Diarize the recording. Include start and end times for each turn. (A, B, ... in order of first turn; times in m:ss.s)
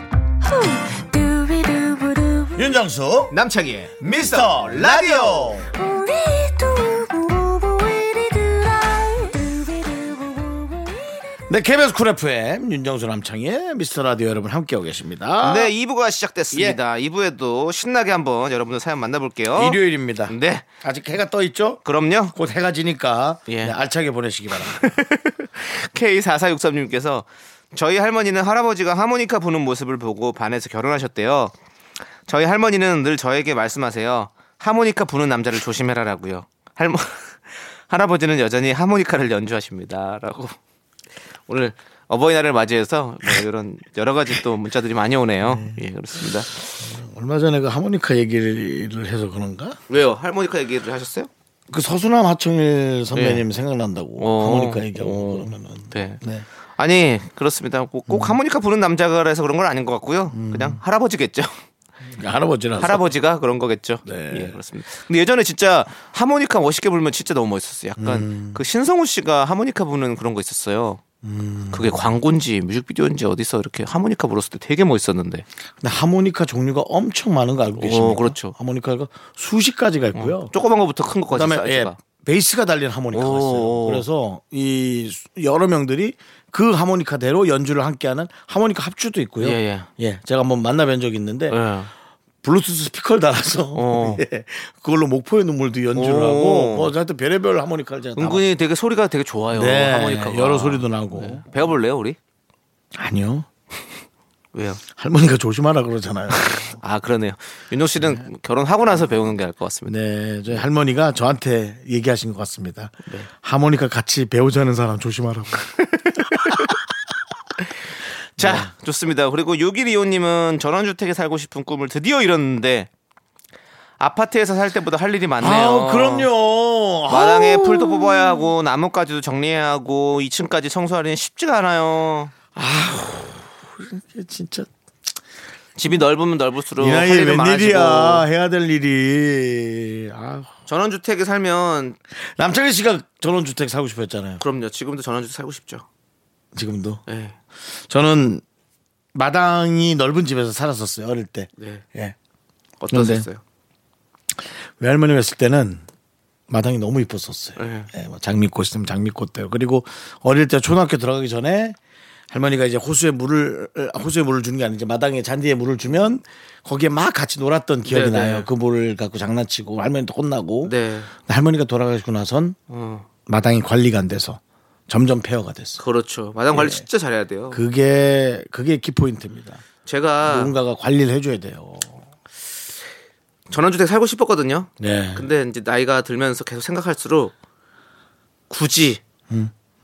0:00.4-0:02.6 A
0:02.6-0:03.4 B
0:03.3-0:05.6 C
0:04.0-0:05.7 B
0:05.7-0:11.2 A
0:11.5-0:15.7 B
0:15.4-0:20.7 C
0:16.5-0:16.8 B
0:19.6-0:21.8 B
0:21.8-0:22.4 C
0:22.3-0:24.9 B
0:23.5-0:23.7 C
0:24.7-0:31.5 C
0:32.3-0:40.6 C
0:41.5-0:46.8 C
0:45.4-0:45.8 B
0:46.8-0:49.8 B
0:49.9-0:51.3 C
0:51.7-0:56.5 B
0:53.1-0:53.4 C
0:54.2-0:56.2 C
0:56.8-1:01.6 C
0:58.1-0:58.4 B
1:00.3-1:00.8 B
1:02.1-1:03.1 B
1:02.8-1:11.0 C
1:04.0-1:04.6 B
1:08.0-1:08.6 B
1:11.2-1:12.0 B
1:11.7-1:15.4 C
1:15.8-1:20.5 B
1:17.8-1:18.6 C
1:20.2-1:22.0 C
1:21.3-1:31.6 B
1:23.1-1:24.0 C
1:29.4-1:29.9 C
1:31.5-1:31.9 C
1:32.4-1:38.4 B
1:33.8-1:34.2 C
1:35.9-1:36.9 C
1:38.2-1:42.2 C
1:39.5-1:41.5 B
1:43.0-1:43.5 B
1:44.5-1:44.8 C
1:44.9-1:46.8 B
1:46.3-1:50.0 C
1:49.9-1:56.8 B
1:56.0-1:56.7 C
1:58.4-1:58.7 B
1:58.4-2:02.9 C
2:04.0-2:06.3 C
2:05.4-2:08.5 B
2:07.1-2:12.3 C
2:12.6-2:14.7 B
2:15.8-2:18.3 C
2:16.8-2:20.5 B
2:20.7-2:22.0 C
2:22.2-2:24.4 B
2:24.4-2:25.8 C
2:26.6-2:27.0 B
2:27.1-2:27.4 C
2:27.9-2:28.4 B
2:29.2-2:32.2 B
2:31.6-2:31.8 C
2:32.8-2:33.4 C
2:32.9-2:33.3 B
2:34.8-2:35.8 B
2:36.5-2:41.8 B
2:37.6-2:37.9 C
2:42.3-2:52.6 B
2:47.8-2:48.5 C
2:50.6-2:51.1 C
2:52.7-2:53.1 C
2:53.3-2:55.8 B
2:55.8-2:57.6 C
2:56.5-2:56.8 B
2:57.5-2:59.6 B
2:59.8-3:00.6 C
3:00.2-3:02.0 B
3:03.5-3:07.3 C
3:04.8-3:05.3 B
3:08.5-3:09.0 C